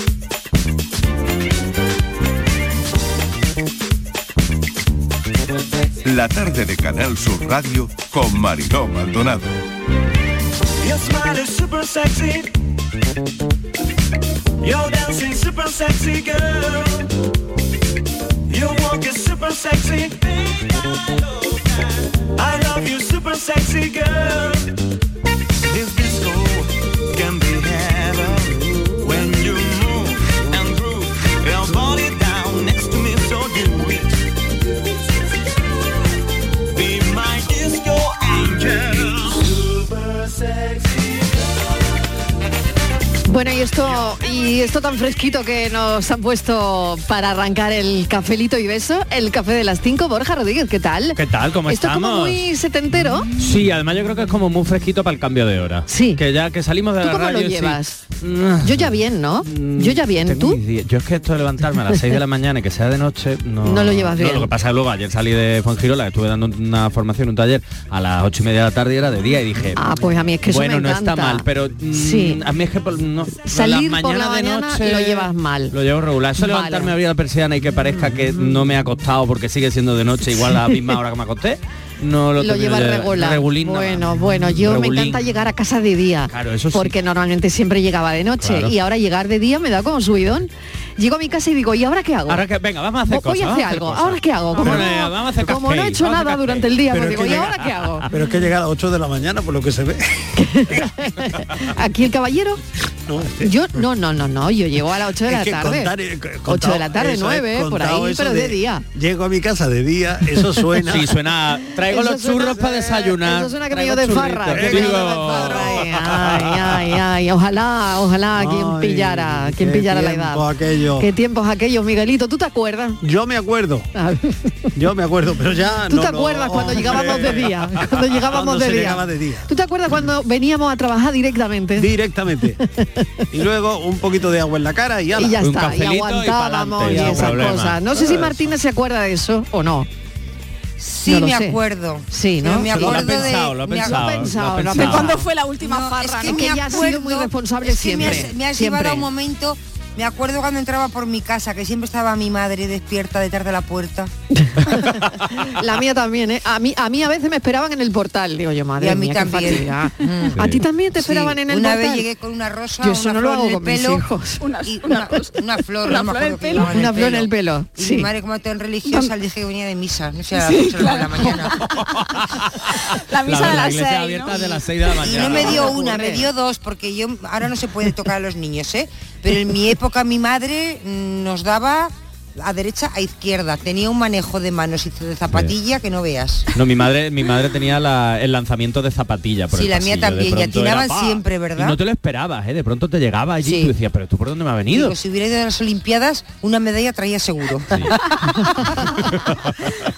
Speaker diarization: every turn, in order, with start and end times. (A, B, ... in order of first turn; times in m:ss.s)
0:06.0-0:09.6 A
0:10.8-0:12.5 B
0:14.6-0:17.1 B
0:18.5-0:24.7 B
0:25.6-0:34.1 B
0:36.7-0:40.8 B
0:43.2-0:53.3 C
0:51.2-0:52.4 D
0:53.4-1:25.2 D
0:55.9-0:56.2 C
0:57.0-0:58.0 C
0:58.6-1:00.6 C
1:03.6-1:04.5 C
1:09.8-1:12.4 C
1:13.4-1:15.7 C
1:16.4-1:16.9 C
1:22.4-1:32.4 C
1:26.3-1:27.0 D
1:28.4-1:28.7 D
1:32.3-1:38.2 D
1:33.1-1:38.1 C
1:34.6-1:34.9 E
1:36.9-1:37.6 E
1:38.1-1:40.8 E
1:40.4-1:42.6 C
1:43.1-1:43.6 E
1:43.4-1:45.9 C
1:45.2-1:51.2 E
1:46.5-1:48.8 C
1:50.8-1:55.8 D
1:51.8-2:00.5 C
1:52.4-1:53.0 E
1:54.5-1:57.0 E
1:58.4-2:01.1 E
2:01.0-2:03.0 C
2:03.0-2:03.9 E
2:04.0-2:04.7 C
2:04.8-2:09.5 E
2:05.9-2:11.9 C
2:11.8-2:12.6 E
2:12.8-2:13.1 C
2:13.3-2:15.4 E
2:15.2-2:19.9 C
2:15.4-2:18.0 D
2:16.9-2:18.4 E
2:20.8-2:24.2 F
2:21.1-2:21.6 C
2:22.1-2:23.3 C
2:22.6-2:25.2 D
2:22.7-2:23.1 E
2:23.8-2:25.3 C
2:24.7-2:26.8 G
2:25.6-2:34.1 F
2:26.2-2:29.1 C
2:34.5-2:42.1 C
2:38.8-2:44.1 F
2:42.8-2:44.4 C
2:44.4-2:46.8 G
2:44.6-2:51.8 F
2:46.6-2:48.1 C
2:48.9-2:49.1 G
2:50.4-2:52.2 G
2:52.9-2:54.6 G
2:53.2-2:55.8 D
2:54.3-3:06.5 F
2:55.2-2:56.3 C
3:06.5-3:15.0 D
3:09.5-3:11.8 F
3:13.4-3:13.7 F
3:14.7-3:17.9 F